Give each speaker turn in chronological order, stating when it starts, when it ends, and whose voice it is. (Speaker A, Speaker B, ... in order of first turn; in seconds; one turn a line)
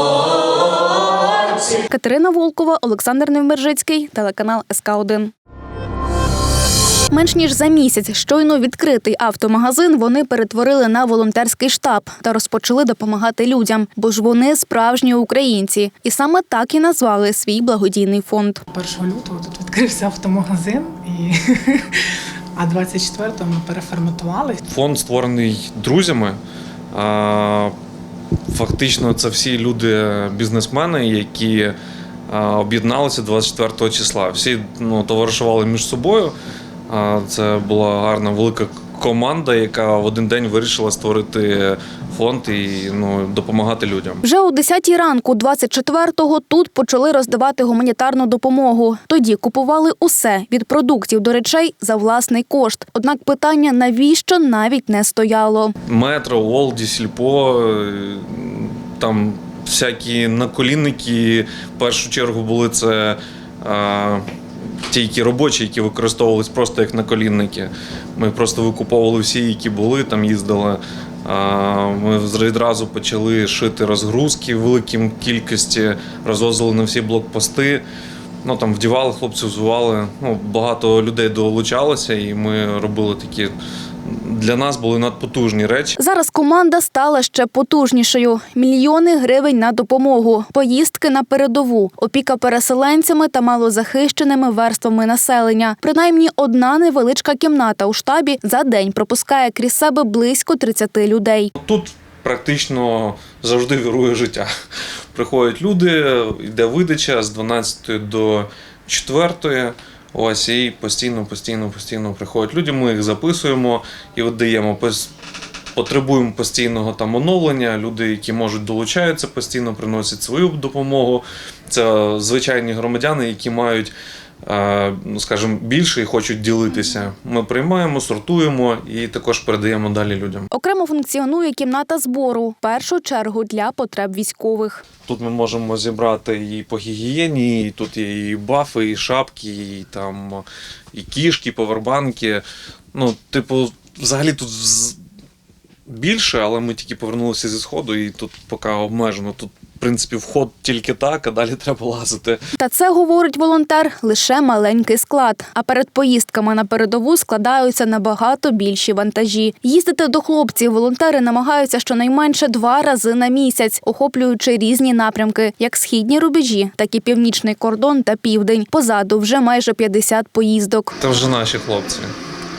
Speaker A: 1.7-5.3
Speaker A: 7.1-18.6
Speaker B: 18.7-21.9
Speaker B: 22.6-24.6
Speaker C: 24.7-26.4
Speaker C: 26.9-27.8
Speaker C: 28.5-31.8
Speaker C: 32.3-36.3
Speaker C: 36.9-44.2
Speaker A: 44.2-55.8
Speaker C: 55.9-64.2
Speaker C: 64.9-77.8
Speaker C: 78.4-83.5
Speaker C: 84.1-86.0
Speaker A: 86.0-101.5
Speaker C: 101.6-104.5
Speaker C: 105.1-115.1
Speaker C: 115.8-123.9
Speaker C: 124.5-130.5
Speaker A: 130.5-134.8
Speaker C: 135.1-145.0
Speaker C: 145.9-152.4
Speaker A: 152.6-170.9
Speaker C: 171.0-172.1